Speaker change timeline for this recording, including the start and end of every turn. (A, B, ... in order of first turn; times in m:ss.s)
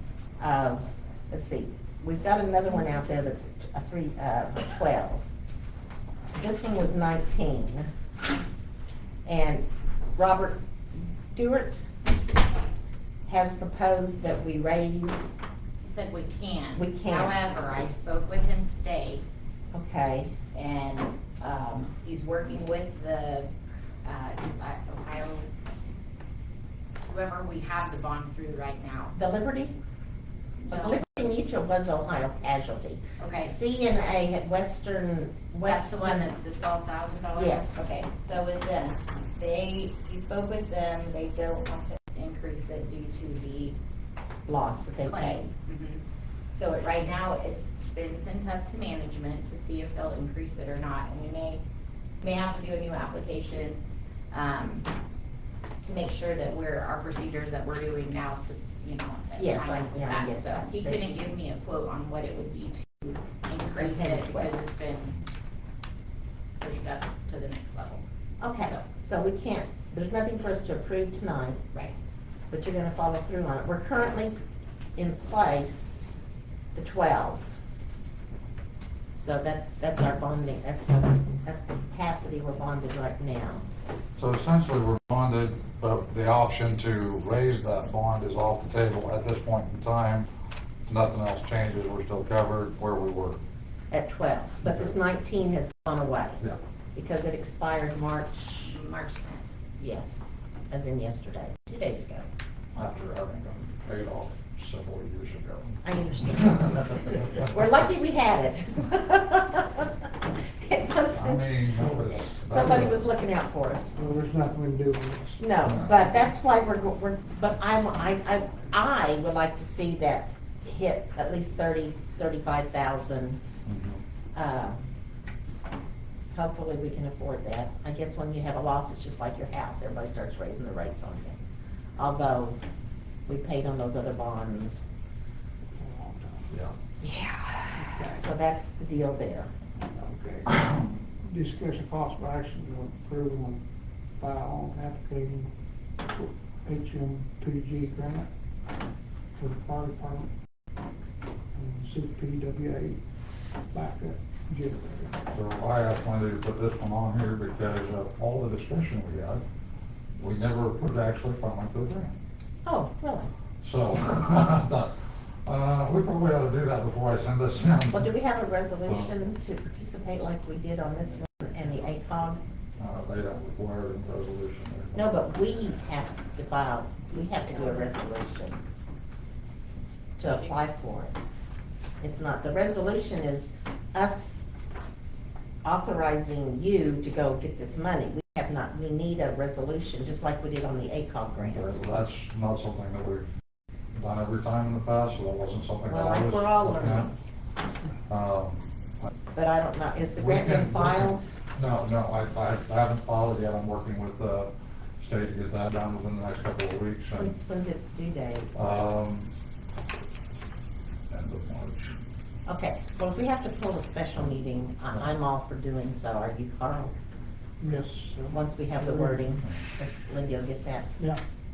0:00.4-0:05.2 A
0:06.3-0:07.9 A
0:09.2-0:10.6 A
0:11.3-0:11.8 A
0:13.2-0:15.3 A
0:15.8-0:19.2 B
0:16.8-0:17.4 A
0:19.7-0:20.3 A
0:20.5-0:23.5 B
0:24.0-0:25.5 B
0:27.1-0:29.1 B
0:29.1-0:29.8 A
0:30.6-0:31.0 B
0:30.7-0:36.3 A
0:33.2-0:33.5 B
0:35.6-0:43.8 B
0:37.3-0:37.9 A
0:44.5-0:45.5 A
0:45.0-0:46.0 B
0:46.6-0:51.6 B
0:52.2-0:54.9 B
0:55.8-1:05.2 B
0:59.4-1:01.2 A
1:03.7-1:04.5 A
1:06.6-1:08.0 B
1:08.4-1:11.6 A
1:12.5-1:14.4 A
1:15.0-1:16.2 A
1:16.7-1:17.5 A
1:19.1-1:23.6 A
1:24.2-1:30.3 C
1:30.9-1:33.4 C
1:33.9-1:36.4 A
1:34.6-1:34.9 C
1:36.9-1:38.7 A
1:38.7-1:39.4 B
1:39.8-1:42.3 A
1:42.8-1:47.6 C
1:45.8-1:51.6 A
1:51.1-1:53.1 C
1:51.8-1:52.1 D
1:52.4-1:54.0 A
1:53.9-1:55.4 D
1:55.4-2:03.4 A
1:55.6-1:56.0 C
2:03.6-2:04.0 C
2:04.3-2:04.8 A
2:06.3-2:11.4 A
2:12.0-2:12.6 A
2:13.2-2:14.8 A
2:15.8-2:16.5 D
2:16.5-2:16.7 C
2:17.0-2:17.8 B
2:17.8-2:18.2 D
2:18.1-2:19.5 A
2:19.9-2:23.6 D
2:24.2-2:28.3 D
2:29.4-2:30.3 D
2:31.5-2:33.0 D
2:33.7-2:35.2 D
2:35.3-2:39.4 C
2:40.1-2:42.1 C
2:42.6-2:43.3 A
2:43.6-2:48.1 C
2:47.9-2:52.4 A
2:52.8-2:55.1 C
2:54.9-2:58.6 A
3:00.2-3:01.2 A
3:00.2-3:00.6 B
3:02.0-3:04.4 A
3:05.6-3:11.7 A
3:11.4-3:13.3 C
3:13.9-3:17.1 C
3:15.9-3:17.2 A
3:18.1-3:19.1 C
3:19.3-3:21.2 A
3:20.2-3:27.3 C
3:27.2-3:28.6 A
3:28.5-3:29.3 C
3:31.1-3:32.0 C
3:32.4-3:36.9 A
3:37.6-3:39.3 D
3:38.3-3:40.9 A